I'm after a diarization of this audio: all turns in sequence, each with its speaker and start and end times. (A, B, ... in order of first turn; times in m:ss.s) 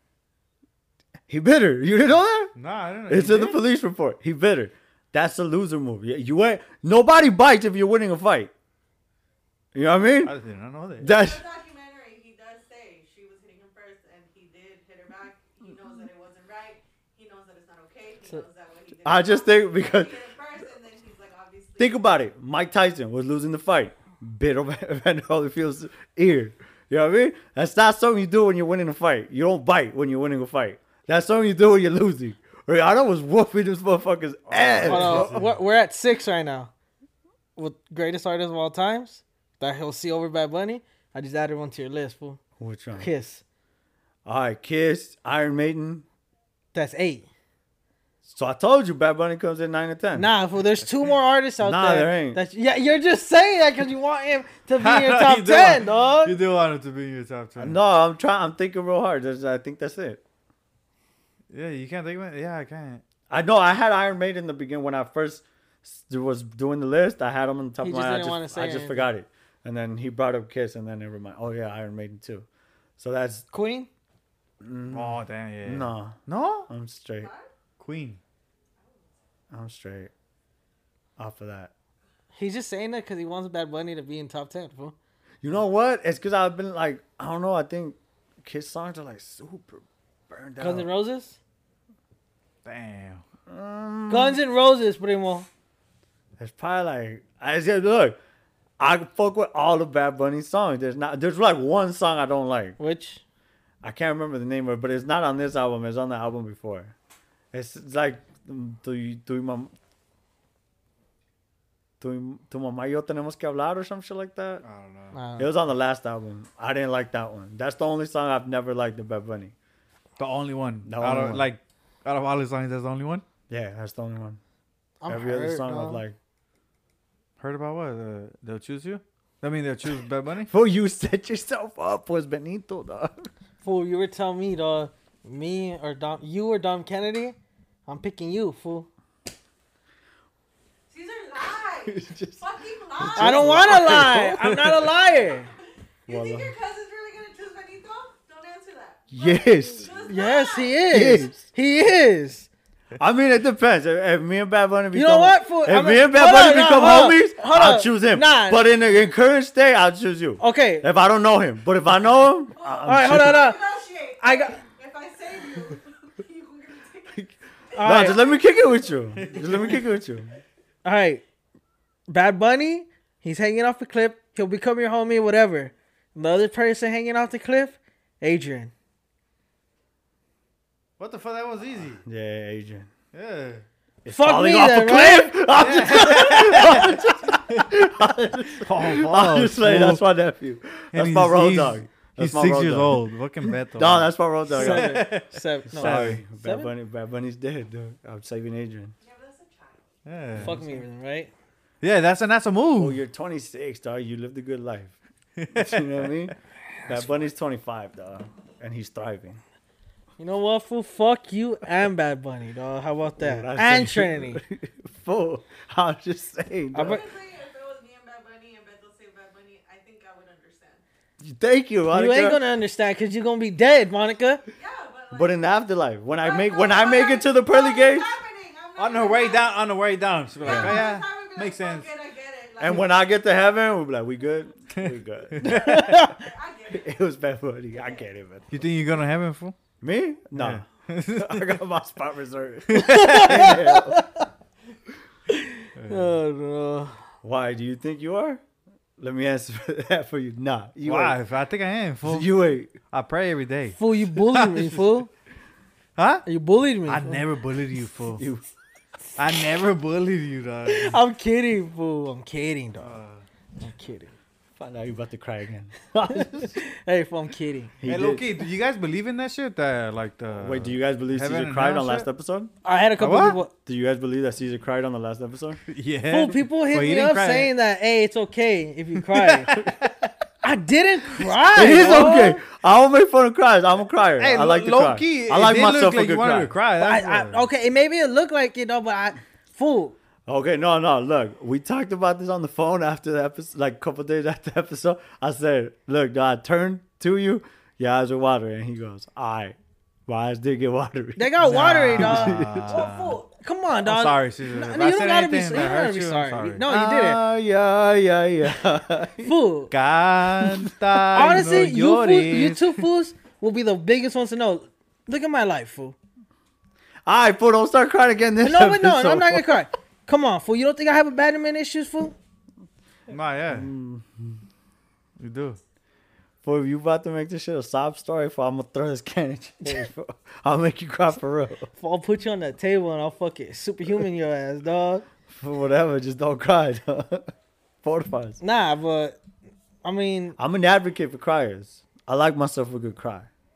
0:01.3-0:02.5 A
0:02.6-0:03.6 B
0:03.1-0:08.5 A
0:09.7-0:10.3 A
0:10.2-0:11.1 B
0:11.0-0:11.4 A
0:11.1-0:22.0 C
0:19.0-0:20.2 A
0:21.8-0:35.4 A
0:34.5-0:35.5 B
0:34.8-0:36.7 D
0:37.6-0:42.4 D
0:42.6-0:43.1 A
0:43.0-0:43.4 D
0:44.3-0:46.0 A
0:46.7-0:47.3 D
0:48.2-0:50.3 A
0:50.1-0:56.4 D
0:51.6-0:52.4 A
0:54.8-0:57.8 B
0:57.6-1:00.2 A
1:01.5-1:03.0 B
1:03.3-1:12.5 A
1:07.8-1:09.1 D
1:13.0-1:13.5 A
1:13.5-1:13.9 D
1:14.6-1:16.2 A
1:14.9-1:16.7 B
1:16.7-1:17.3 A
1:17.2-1:17.5 C
1:17.8-1:18.2 B
1:18.8-1:19.2 C
1:19.5-1:20.1 A
1:21.2-1:21.7 A
1:22.4-1:25.0 D
1:25.4-1:30.9 A
1:30.6-1:31.4 D
1:32.6-1:33.2 B
1:33.5-1:34.4 A
1:34.1-1:35.5 D
1:36.4-1:38.2 A
1:38.8-1:42.8 A
1:42.8-1:43.2 D
1:43.8-1:46.9 A
1:47.5-1:49.7 A
1:52.0-1:54.6 A
1:54.6-1:55.2 B
1:55.1-1:55.5 D
1:55.4-1:59.5 A
2:00.2-2:03.2 B
2:00.8-2:01.5 A
2:03.5-2:04.4 A
2:05.0-2:06.0 D
2:05.1-2:06.2 A
2:07.4-2:10.5 B
2:10.5-2:13.3 A
2:13.6-2:17.4 D
2:17.9-2:18.9 D
2:20.9-2:24.1 C
2:21.8-2:22.4 A
2:23.0-2:24.9 A
2:23.2-2:25.5 D
2:24.8-2:31.2 C
2:26.1-2:26.5 A
2:29.1-2:30.1 A
2:30.1-2:32.5 D
2:30.9-2:31.4 A
2:33.0-2:43.5 A
2:34.9-2:38.6 D
2:40.4-2:40.8 D
2:42.6-2:48.9 C
2:42.8-2:43.6 D
2:44.2-2:44.6 D
2:47.8-2:48.2 D
2:47.8-2:50.3 A
2:49.2-2:49.8 B
2:50.8-2:51.2 D
2:52.1-2:58.7 D
3:01.0-3:02.0 B
3:02.0-3:02.9 A
3:03.1-3:03.6 B
3:04.0-3:13.0 A
3:04.1-3:05.4 D
3:05.5-3:07.7 B
3:08.6-3:10.0 B
3:10.9-3:16.2 B
3:13.7-3:15.2 A
3:14.5-3:16.7 D
3:15.7-3:19.0 A
3:19.0-3:20.0 C
3:20.1-3:20.8 B
3:20.4-3:21.3 D
3:21.8-3:23.0 B
3:22.8-3:25.0 A
3:25.4-3:26.3 B
3:25.5-3:29.4 A
3:30.2-3:34.4 D
3:33.2-3:37.0 A
3:36.7-3:37.0 D
3:36.8-3:40.8 C
3:41.2-3:42.4 A
3:41.9-3:44.4 D
3:44.5-3:45.5 C
3:45.1-3:48.1 A
3:46.2-3:49.5 C
3:48.8-3:51.9 B
3:50.4-3:52.9 C
3:50.5-3:50.8 A
3:52.6-3:56.1 A
3:54.8-3:55.8 B
3:55.4-3:56.2 D
3:55.6-3:56.9 C
3:56.7-3:58.6 A
3:58.5-3:59.6 B
3:59.8-4:04.1 A
4:00.4-4:01.6 B
4:02.7-4:03.5 B
4:02.8-4:04.2 D
4:05.3-4:07.0 D
4:05.8-4:06.1 B
4:07.2-4:08.4 A
4:09.0-4:11.2 A
4:10.8-4:12.3 B
4:12.0-4:12.8 A
4:12.9-4:14.8 B
4:13.8-4:15.1 D
4:16.0-4:16.2 B
4:16.3-4:17.2 D
4:16.9-4:18.2 B
4:18.2-4:18.4 A
4:19.2-4:21.0 B
4:20.7-4:22.9 D
4:22.8-4:23.2 B
4:23.6-4:24.2 D
4:24.6-4:26.6 A
4:26.1-4:27.7 D
4:27.8-4:28.3 A
4:27.8-4:32.1 B
4:30.4-4:32.5 A
4:32.6-4:33.5 D
4:33.0-4:33.4 B
4:33.5-4:35.6 A
4:35.7-4:37.5 B
4:36.1-4:39.6 D
4:39.0-4:40.1 B
4:40.4-4:42.4 D
4:41.5-4:46.5 A
4:44.2-4:47.5 B
4:46.8-4:50.0 D
4:50.3-5:01.3 A
5:01.2-5:07.2 D
5:01.4-5:03.2 B
5:01.9-5:02.9 A
5:03.8-5:06.6 B
5:06.7-5:09.3 A
5:09.2-5:09.7 D
5:09.7-5:12.8 B
5:10.4-5:10.7 A
5:11.1-5:16.0 D
5:17.1-5:19.6 A
5:18.4-5:22.2 D
5:23.1-5:23.7 B
5:23.5-5:24.4 A
5:25.2-5:25.6 B
5:26.4-5:31.7 A
5:31.8-5:35.1 D
5:35.3-5:37.3 A
5:37.8-5:38.4 A
5:38.4-5:39.2 D
5:39.8-5:40.4 D
5:40.4-5:43.3 A